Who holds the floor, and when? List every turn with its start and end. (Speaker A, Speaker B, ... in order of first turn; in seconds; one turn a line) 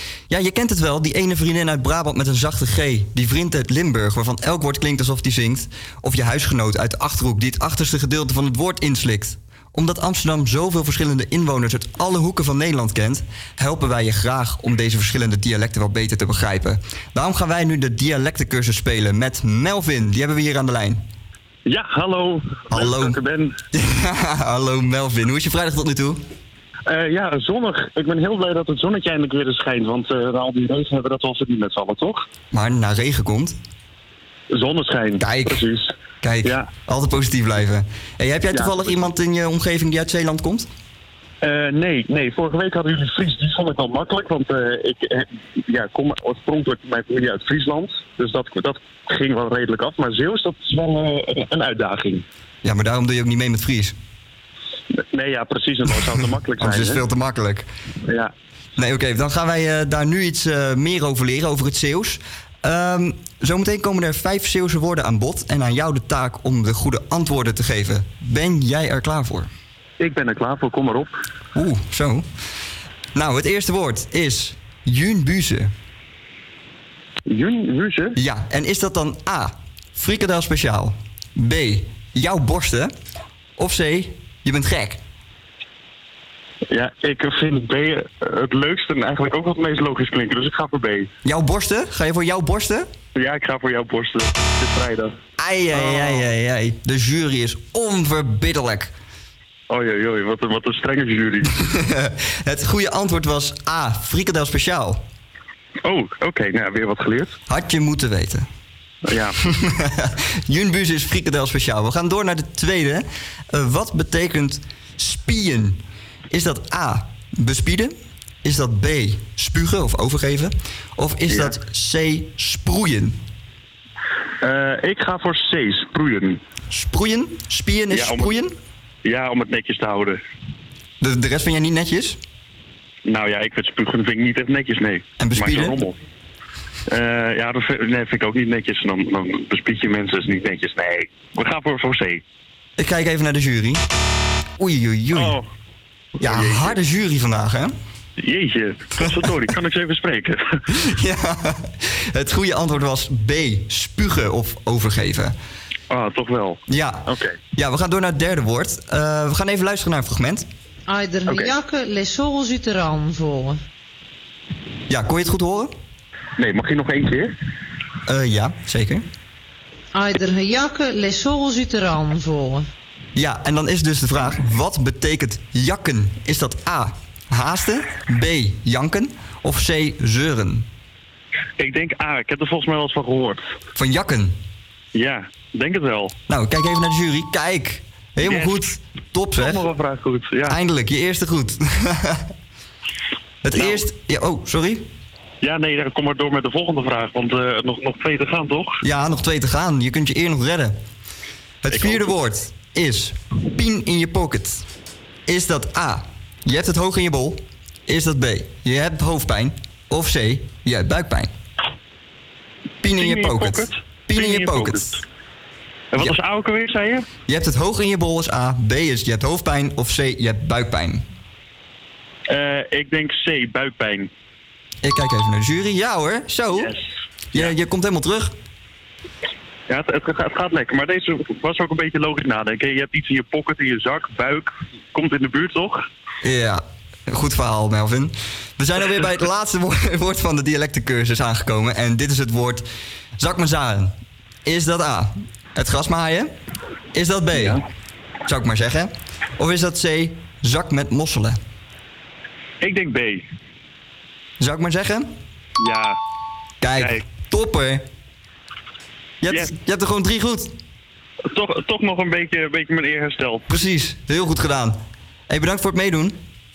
Speaker A: 0.3-21.0
Speaker B: 21.7-23.5
Speaker A: 22.7-23.1
Speaker A: 23.7-26.2
Speaker B: 26.9-32.2
Speaker A: 32.5-33.5
Speaker B: 34.5-35.9
Speaker A: 35.2-35.6
Speaker A: 36.2-40.7
Speaker B: 38.5-39.1
Speaker B: 41.4-52.2
Speaker A: 52.6-53.9
Speaker B: 55.1-57.0
Speaker A: 56.6-57.7
Speaker A: 58.8-69.5
Speaker B: 70.0-71.1
Speaker A: 71.5-72.2
Speaker A: 73.1-75.7
Speaker B: 77.3-78.1
Speaker A: 78.2-82.9
Speaker A: 83.6-85.0
Speaker B: 86.7-91.1
Speaker A: 91.2-92.9
Speaker B: 93.2-95.1
Speaker A: 95.4-98.9
Speaker B: 95.7-96.2
Speaker B: 99.7-101.5
Speaker A: 101.7-105.0
Speaker B: 105.8-107.3
Speaker A: 107.5-108.5
Speaker B: 109.1-109.3
Speaker A: 109.4-115.8
Speaker A: 116.3-123.2
Speaker B: 121.3-121.5
Speaker B: 124.4-126.4
Speaker A: 126.7-128.5
Speaker B: 127.9-128.3
Speaker B: 129.0-130.2
Speaker A: 131.0-132.2
Speaker B: 133.1-135.9
Speaker A: 135.2-135.7
Speaker B: 136.9-142.2
Speaker A: 142.8-143.8
Speaker A: 144.6-145.3
Speaker B: 145.1-145.4
Speaker B: 146.2-146.8
Speaker A: 146.2-147.7
Speaker B: 148.2-150.4
Speaker A: 150.9-155.3
Speaker B: 155.9-157.3
Speaker A: 156.7-157.0
Speaker A: 157.6-160.4
Speaker C: 160.9-163.6
Speaker A: 164.9-165.7
Speaker B: 166.4-167.3
Speaker A: 168.1-169.1
Speaker C: 169.9-172.7
Speaker A: 173.2-180.6
Speaker B: 181.6-183.4
Speaker A: 183.8-184.3
Speaker B: 184.9-186.1
Speaker A: 186.3-189.6
Speaker B: 188.2-188.6
Speaker B: 189.3-190.6
Speaker A: 190.5-192.2
Speaker A: 193.4-194.9
Speaker B: 193.5-193.9
Speaker B: 195.4-198.8
Speaker A: 198.8-200.8
Speaker A: 201.6-204.6
Speaker B: 201.7-202.1
Speaker A: 205.3-211.3
Speaker A: 212.8-214.9
Speaker B: 212.9-215.0
Speaker B: 215.9-217.0
Speaker A: 217.3-221.0
Speaker B: 222.3-224.1
Speaker A: 224.8-226.7
Speaker A: 227.3-228.3
Speaker B: 229.7-235.8
Speaker A: 236.2-242.7
Speaker A: 243.2-243.9
Speaker A: 244.4-246.3
Speaker A: 246.9-247.6
Speaker A: 248.2-251.4
Speaker B: 252.6-253.2
Speaker A: 254.4-255.1
Speaker B: 255.6-255.9
Speaker A: 256.6-257.8
Speaker B: 256.7-257.0
Speaker A: 259.2-260.5
Speaker B: 261.3-263.4
Speaker A: 263.5-266.2